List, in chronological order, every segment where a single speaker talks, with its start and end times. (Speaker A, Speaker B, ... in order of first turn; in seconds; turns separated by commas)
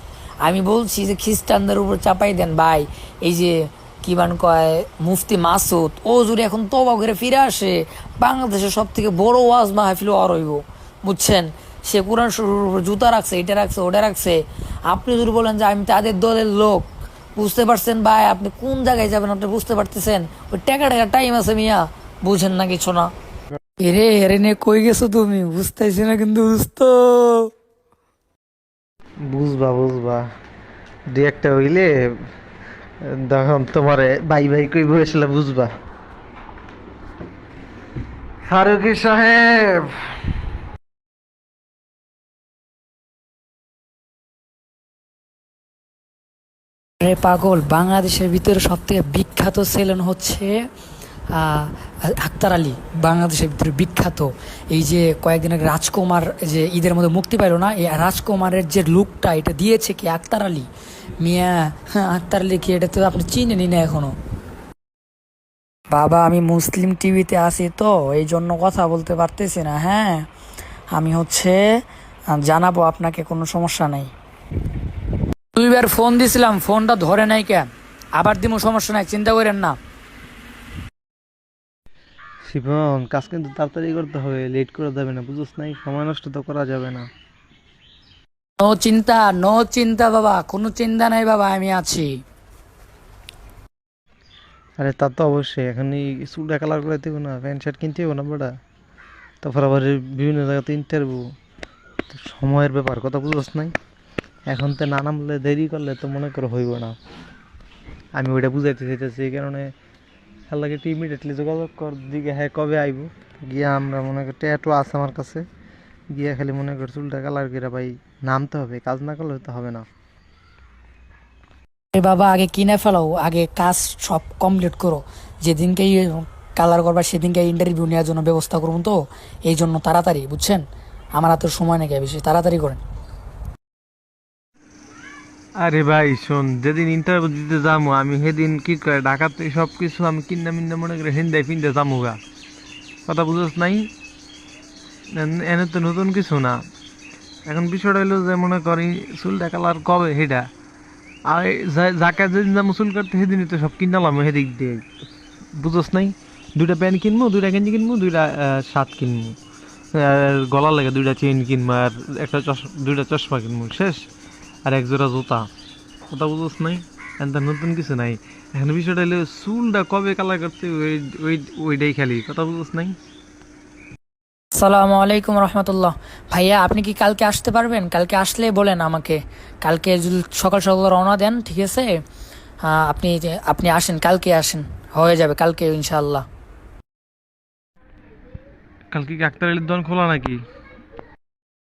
Speaker A: 0.4-16.9, Speaker A: 17.4-23.1, Speaker A: 23.8-27.5, Speaker B: 29.2-30.2, Speaker B: 31.1-32.2, Speaker B: 33.0-35.7, Speaker B: 38.5-40.2, Speaker A: 47.0-50.6, Speaker A: 51.3-60.7, Speaker A: 61.2-64.1, Speaker A: 65.9-70.3, Speaker A: 70.9-71.6, Speaker A: 72.3-74.1, Speaker A: 75.5-79.8, Speaker B: 82.4-87.1, Speaker A: 88.6-92.2, Speaker B: 94.8-98.5, Speaker B: 99.4-101.2, Speaker B: 102.1-103.8, Speaker B: 104.5-107.0, Speaker B: 108.2-109.7, Speaker B: 110.5-115.5, Speaker B: 116.1-119.9, Speaker A: 121.9-132.8, Speaker B: 135.6-142.2, Speaker B: 143.1-143.9, Speaker B: 145.2-146.6, Speaker B: 147.5-150.5, Speaker B: 151.3-154.9, Speaker B: 155.6-159.4, Speaker B: 159.9-164.1, Speaker B: 164.7-165.5, Speaker B: 166.1-173.0, Speaker A: 174.5-182.0, Speaker A: 182.6-186.2, Speaker B: 188.9-190.4